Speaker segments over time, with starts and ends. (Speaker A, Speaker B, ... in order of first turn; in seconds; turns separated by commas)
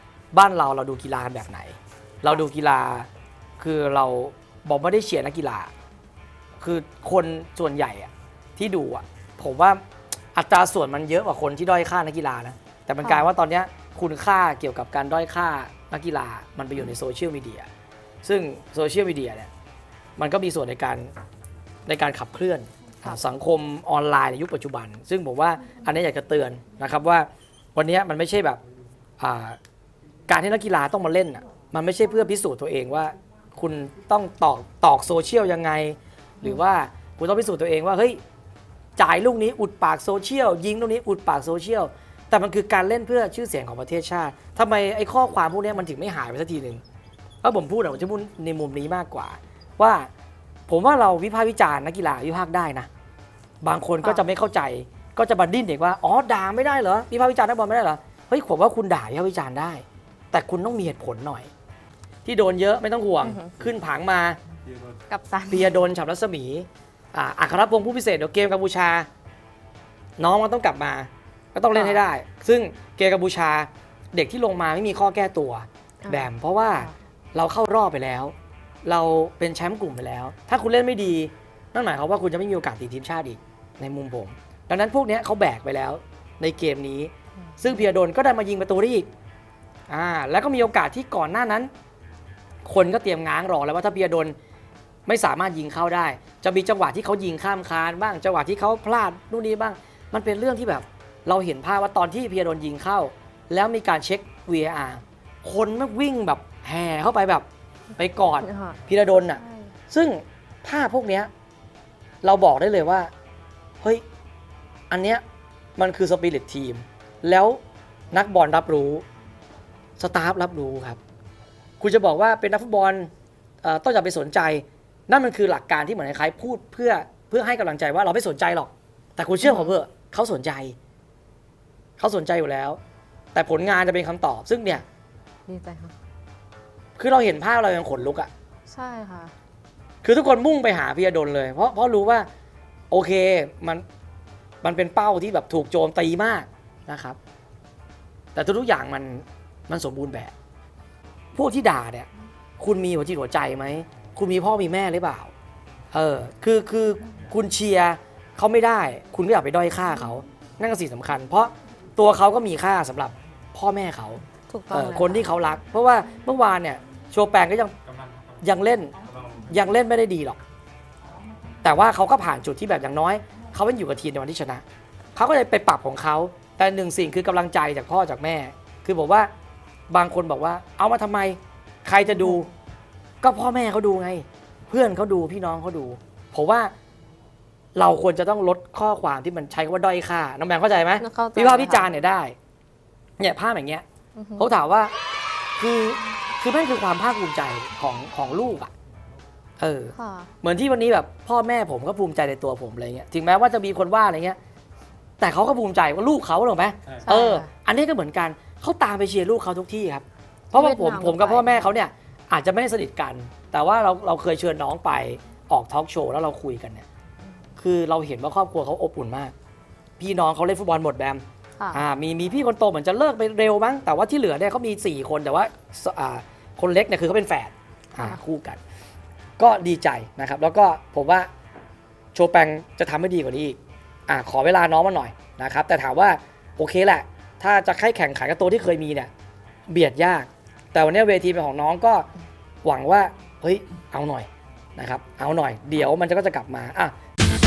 Speaker A: 0.3-3.1, Speaker A: 3.6-5.7, Speaker A: 6.6-9.8, Speaker A: 10.3-17.7, Speaker B: 13.0-13.3, Speaker A: 18.2-19.5, Speaker A: 20.2-21.1, Speaker A: 21.9-28.6, Speaker A: 29.2-29.6, Speaker A: 30.3-38.2, Speaker A: 39.0-46.8, Speaker A: 47.4-50.1, Speaker A: 50.7-52.9, Speaker A: 53.6-61.5, Speaker B: 54.0-54.3, Speaker A: 62.2-64.4, Speaker B: 63.2-63.5, Speaker B: 65.1-65.7, Speaker A: 65.5-69.1, Speaker A: 70.2-78.3, Speaker B: 71.7-72.0, Speaker B: 76.0-76.9, Speaker A: 78.8-89.1, Speaker B: 87.5-87.7, Speaker A: 89.9-91.7, Speaker A: 92.6-94.3, Speaker A: 95.1-107.5, Speaker A: 108.0-111.3, Speaker B: 108.4-109.7, Speaker A: 112.2-113.1, Speaker A: 114.9-115.2, Speaker A: 115.8-117.6, Speaker A: 118.1-119.0, Speaker A: 120.0-121.0, Speaker A: 121.8-123.1, Speaker A: 123.6-130.8, Speaker B: 129.4-129.7, Speaker A: 132.0-132.8, Speaker A: 133.3-134.8, Speaker B: 135.5-135.9, Speaker A: 137.0-138.3, Speaker B: 138.7-139.3, Speaker A: 140.0-142.3, Speaker A: 142.9-143.8, Speaker A: 144.6-147.2, Speaker A: 148.3-150.3, Speaker A: 151.3-152.1, Speaker A: 152.6-155.3, Speaker A: 155.9-167.7, Speaker B: 164.5-165.3, Speaker A: 168.4-168.9, Speaker A: 169.5-170.4, Speaker A: 171.6-174.6, Speaker A: 175.2-179.3, Speaker A: 179.9-182.5, Speaker A: 183.2-186.7, Speaker A: 187.7-192.3, Speaker B: 191.0-191.9, Speaker A: 193.2-193.8, Speaker B: 194.2-194.5, Speaker A: 194.4-194.9, Speaker A: 195.6-198.7, Speaker A: 199.6-204.4, Speaker B: 199.9-200.3, Speaker A: 205.2-216.8, Speaker B: 207.0-207.5, Speaker B: 210.5-211.7, Speaker A: 217.6-219.3, Speaker A: 220.0-228.6, Speaker A: 229.4-231.3, Speaker A: 232.1-239.1, Speaker A: 239.7-242.1, Speaker A: 242.6-246.9